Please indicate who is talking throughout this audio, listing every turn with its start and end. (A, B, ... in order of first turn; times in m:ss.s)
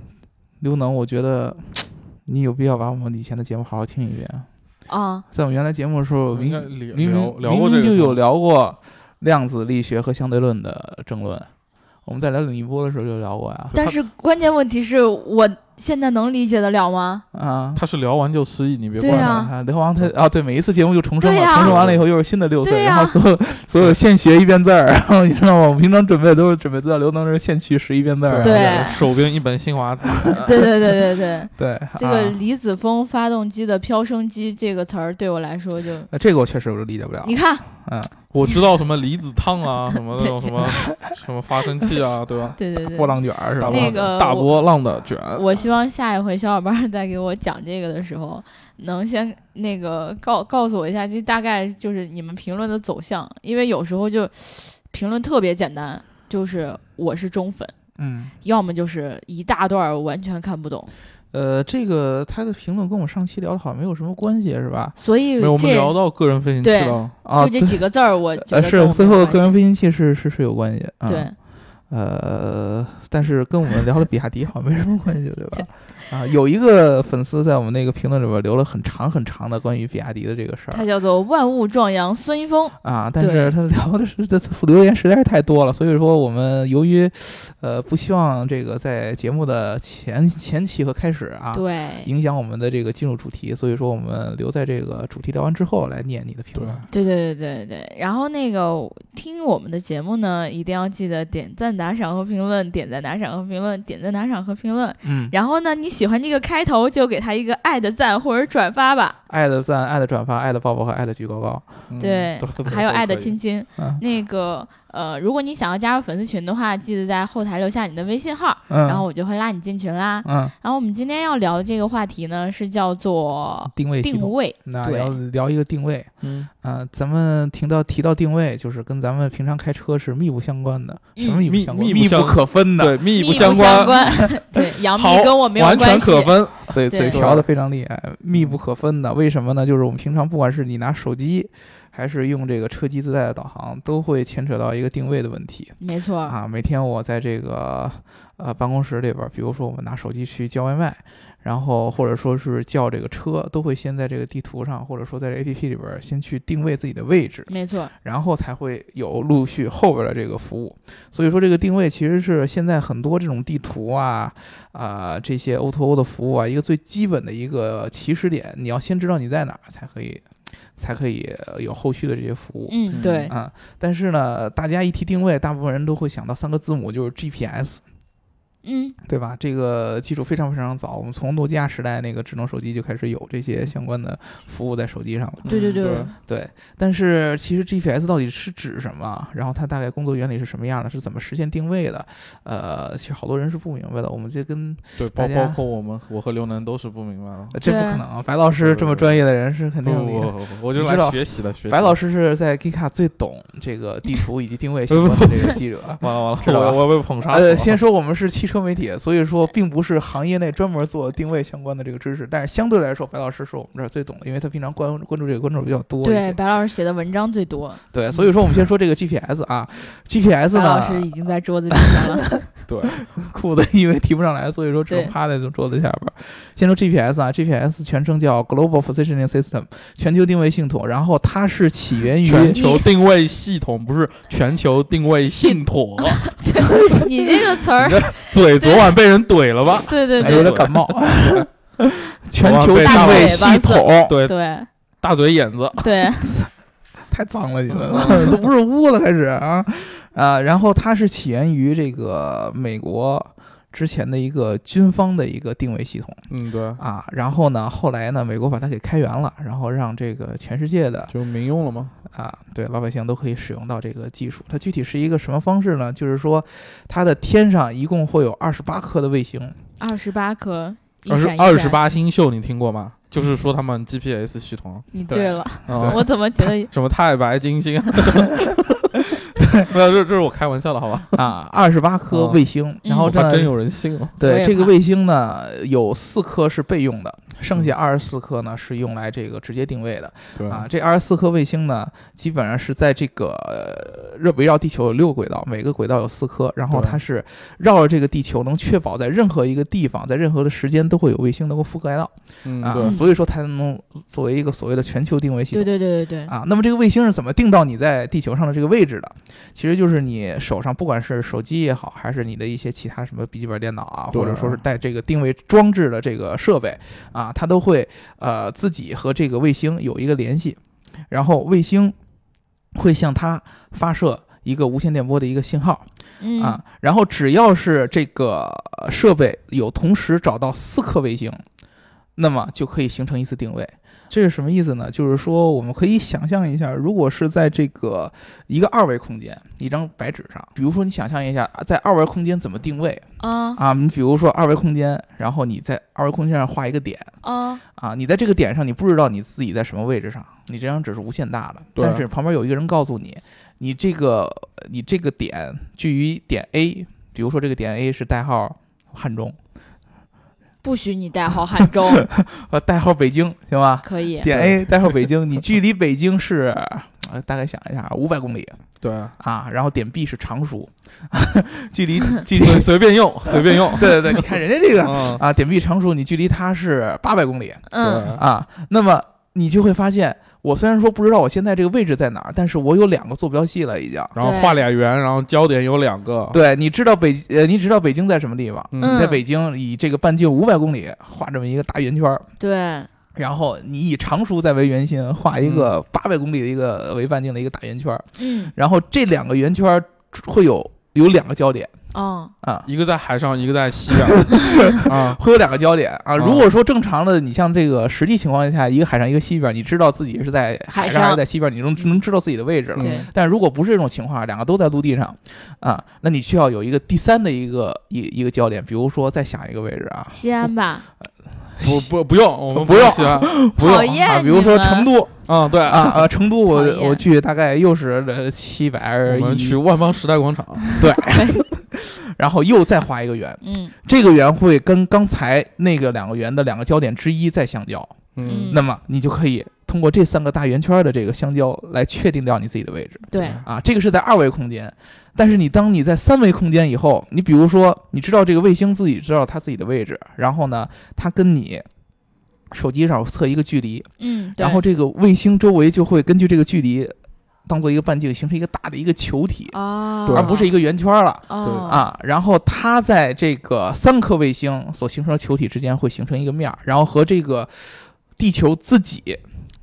0:00.6-0:04.5 A
0:04.9-0:05.2 B
0:05.3-0:11.5 A
0:06.3-0:08.2 C
0:12.0-0:13.8 A
0:13.7-0:17.2 B
0:17.3-0:17.8 A
0:17.7-0:19.4 C
0:19.0-0:19.5 B
0:19.0-0:28.9 A
0:21.2-0:21.8 B
0:21.6-0:22.0 C
0:22.6-0:23.2 B
0:28.3-0:30.7 C
0:28.4-0:29.0 B
0:30.3-0:30.9 A
0:30.3-0:36.1 B
0:31.6-0:32.4 A
0:36.1-0:38.1 A
0:37.2-0:37.6 B
0:38.3-0:42.6 C
0:42.6-0:44.5 B
0:42.8-0:44.0 A
0:43.6-0:45.4 C
0:45.3-0:57.7 B
0:58.0-0:58.3 A
0:58.4-1:00.9 B
1:01.3-1:05.0 A
1:05.0-1:05.9 B
1:05.4-1:07.1 C
1:06.6-1:09.6 B
1:07.2-1:11.3 A
1:11.1-1:11.3 B
1:11.9-1:20.8 A
1:20.7-1:23.5 B
1:22.8-1:36.9 A
1:31.5-1:32.1 B
1:36.5-1:36.8 C
1:36.9-1:49.2 B
1:45.0-1:45.3 A
1:49.3-1:51.6 A
1:51.9-1:53.3 C
1:52.0-2:05.2 B
1:58.7-1:59.0 A
2:00.2-2:00.5 A
2:03.7-2:14.1 A
2:06.2-2:06.5 C
2:11.2-2:11.4 B
2:11.4-2:17.5 C
2:13.1-2:16.3 B
2:16.7-2:37.5 A
2:16.9-2:17.2 B
2:25.8-2:26.3 B
2:37.5-2:37.9 B
2:38.0-2:50.2 A
2:50.8-2:57.8 A
2:52.7-2:53.3 B
2:52.9-2:53.3 C
2:58.6-2:59.0 B
2:59.0-3:15.6 A
3:05.4-3:06.1 C
3:05.4-3:06.1 B
3:15.0-3:17.6 C
3:17.5-3:36.4 A
3:17.6-3:18.0 B
3:18.6-3:19.2 C
3:19.8-3:22.0 C
3:24.9-3:27.8 C
3:36.0-3:38.3 B
3:37.9-3:41.1 A
3:40.5-3:42.4 B
3:41.7-3:42.2 A
3:42.7-3:43.0 C
3:43.0-3:52.6 A
3:52.2-3:57.0 C
3:52.5-3:52.9 B
3:55.3-3:58.8 B
3:57.8-4:01.5 C
3:59.9-4:00.7 B
4:00.2-4:04.1 A
4:02.4-4:03.5 C
4:02.8-4:04.7 B
4:04.1-4:04.4 C
4:05.0-4:05.8 C
4:05.8-4:06.3 B
4:06.2-4:06.5 A
4:07.0-4:21.1 A
4:07.9-4:08.3 C
4:16.3-4:16.8 C
4:21.1-4:21.9 C
4:22.0-4:29.6 A
4:29.8-4:31.8 B
4:31.1-4:35.0 C
4:34.9-4:36.7 B
4:35.1-4:36.0 A
4:35.7-4:39.0 C
4:39.5-4:41.2 C
4:41.1-4:43.6 A
4:42.1-4:42.4 C
4:42.8-4:43.1 B
4:43.0-4:44.1 C
4:44.2-5:05.7 A
4:44.2-4:44.7 B
4:50.4-4:50.7 C
4:56.7-4:57.0 C
5:02.4-5:03.0 C
5:02.8-5:03.0 B
5:05.5-5:06.3 B
5:06.2-5:21.9 A
5:14.1-5:14.6 C
5:22.7-5:25.8 A
5:26.2-5:26.6 B
5:26.4-5:31.4 A
5:32.2-5:47.1 A
5:43.2-5:43.6 B
5:47.2-5:47.6 B
5:47.7-5:59.4 A
5:51.7-5:52.0 C
6:00.6-6:02.1 B
6:02.0-6:08.6 A
6:03.8-6:04.3 B
6:04.3-6:05.0 C
6:08.8-6:09.1 C
6:09.2-6:12.7 A
6:12.3-6:15.2 C
6:13.2-6:24.1 A
6:17.7-6:18.1 B
6:17.8-6:18.2 C
6:24.1-6:26.4 C
6:24.2-6:24.6 B
6:26.3-6:32.3 A
6:28.7-6:29.0 C
6:28.8-6:29.2 B
6:32.4-6:32.9 B
6:33.1-6:41.7 A
6:35.4-6:35.7 C
6:38.2-6:38.5 B
6:41.9-6:42.3 B
6:42.4-6:42.7 A
6:42.7-6:45.2 C
6:43.9-7:00.5 A
6:46.2-6:46.5 C
6:50.7-6:51.2 B
6:52.8-6:53.1 C
6:52.8-6:53.1 B
7:00.1-7:00.8 B
7:01.5-7:01.9 A
7:01.6-7:03.4 C
7:02.5-7:09.6 A
7:03.6-7:04.9 B
7:05.2-7:06.1 C
7:06.5-7:07.0 B
7:09.0-7:10.7 C
7:10.6-7:11.4 B
7:10.8-7:31.6 A
7:13.4-7:13.7 B
7:18.1-7:18.5 C
7:18.2-7:18.6 B
7:23.1-7:23.4 B
7:23.2-7:23.4 C
7:32.5-7:49.2 A
7:34.0-7:34.6 B
7:39.5-7:40.5 B
7:40.1-7:40.4 C
7:41.3-7:41.8 B
7:41.4-7:41.7 C